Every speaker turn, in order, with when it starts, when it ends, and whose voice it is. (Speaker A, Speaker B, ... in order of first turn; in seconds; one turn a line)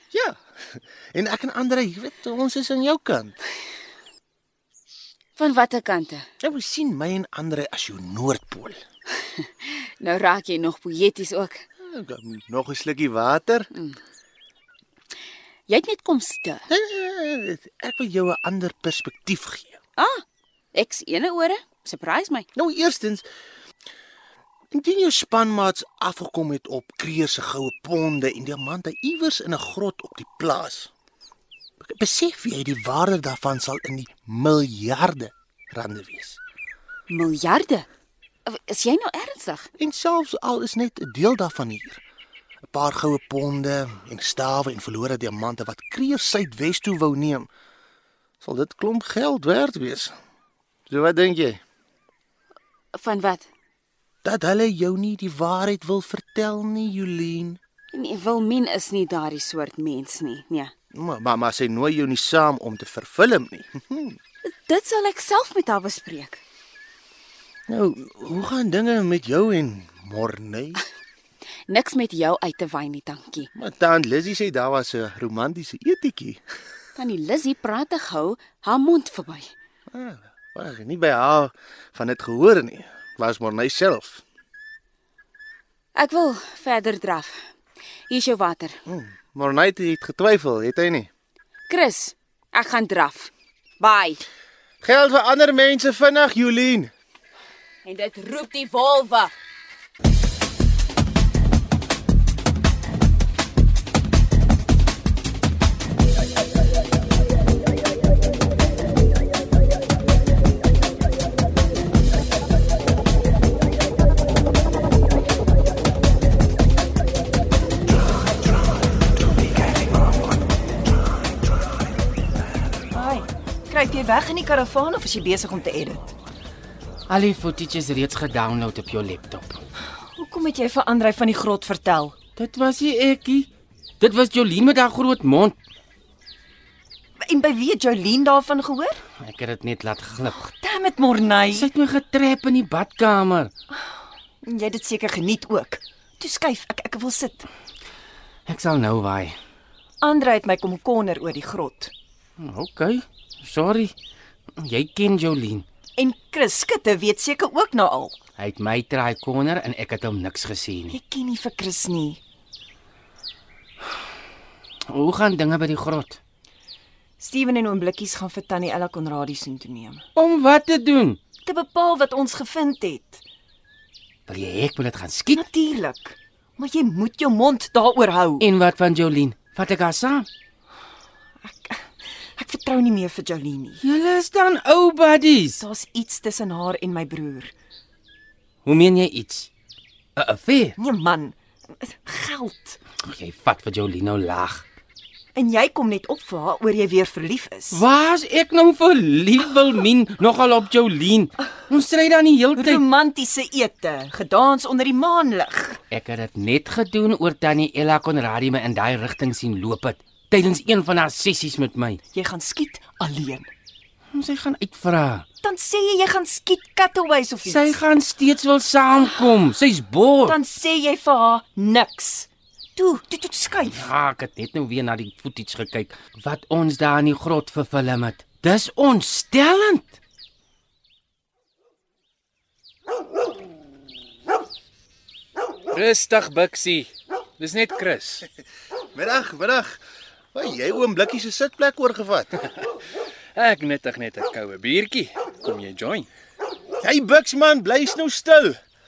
Speaker A: 0.1-3.4
Speaker B: 5.4-6.3
Speaker A: 6.4-8.8
Speaker B: 9.3-11.6
Speaker A: 11.8-13.7
Speaker B: 15.7-16.6
Speaker A: 16.7-19.8
Speaker B: 20.0-22.5
Speaker A: 22.6-23.3
Speaker A: 24.7-30.9
Speaker A: 31.8-36.4
Speaker B: 37.1-37.9
Speaker B: 38.5-39.7
Speaker A: 39.8-42.0
Speaker A: 42.7-47.5
Speaker A: 48.4-50.1
Speaker A: 50.9-51.6
Speaker B: 52.9-53.5
Speaker A: 54.2-57.6
Speaker B: 57.9-60.7
Speaker A: 60.9-64.2
Speaker B: 64.5-66.4
Speaker A: 67.7-70.8
Speaker B: 71.7-73.5
Speaker A: 73.5-76.4
Speaker B: 77.0-79.5
Speaker A: 79.9-84.2
Speaker B: 86.0-87.4
Speaker B: 88.1-88.8
Speaker A: 88.9-91.1
Speaker B: 91.7-94.2
Speaker A: 94.8-96.9
Speaker B: 97.8-99.3
Speaker C: 122.9-126.1
Speaker D: 127.1-129.6
Speaker C: 130.2-132.2
Speaker D: 132.4-135.6
Speaker C: 137.2-139.0
Speaker D: 139.2-140.5
Speaker C: 140.6-141.7
Speaker D: 141.5-143.5
Speaker C: 143.7-147.5
Speaker D: 148.5-149.4
Speaker C: 150.0-151.9
Speaker D: 152.4-153.9
Speaker D: 154.6-155.7
Speaker C: 156.0-158.2
Speaker D: 158.4-161.0
Speaker C: 160.9-162.2
Speaker D: 164.9-166.2
Speaker C: 167.2-170.0
Speaker D: 170.2-171.2
Speaker C: 171.4-173.2
Speaker D: 174.3-175.4
Speaker C: 175.3-178.5
Speaker D: 178.4-180.3
Speaker C: 181.4-183.8
Speaker D: 183.8-185.6
Speaker C: 185.6-187.5
Speaker D: 188.7-189.5
Speaker D: 190.2-190.8
Speaker C: 190.8-192.8
Speaker D: 192.9-194.7
Speaker C: 195.3-197.8
Speaker D: 197.7-202.8
Speaker C: 202.6-205.8
Speaker D: 205.9-212.0
Speaker C: 212.1-213.5
Speaker D: 214.1-215.3
Speaker C: 215.4-217.7
Speaker D: 217.4-220.4
Speaker C: 220.3-223.8
Speaker D: 223.6-230.0
Speaker E: 235.7-238.2
Speaker A: 238.9-239.8
Speaker A: 240.3-242.4
Speaker E: 243.3-246.1
Speaker A: 246.8-248.6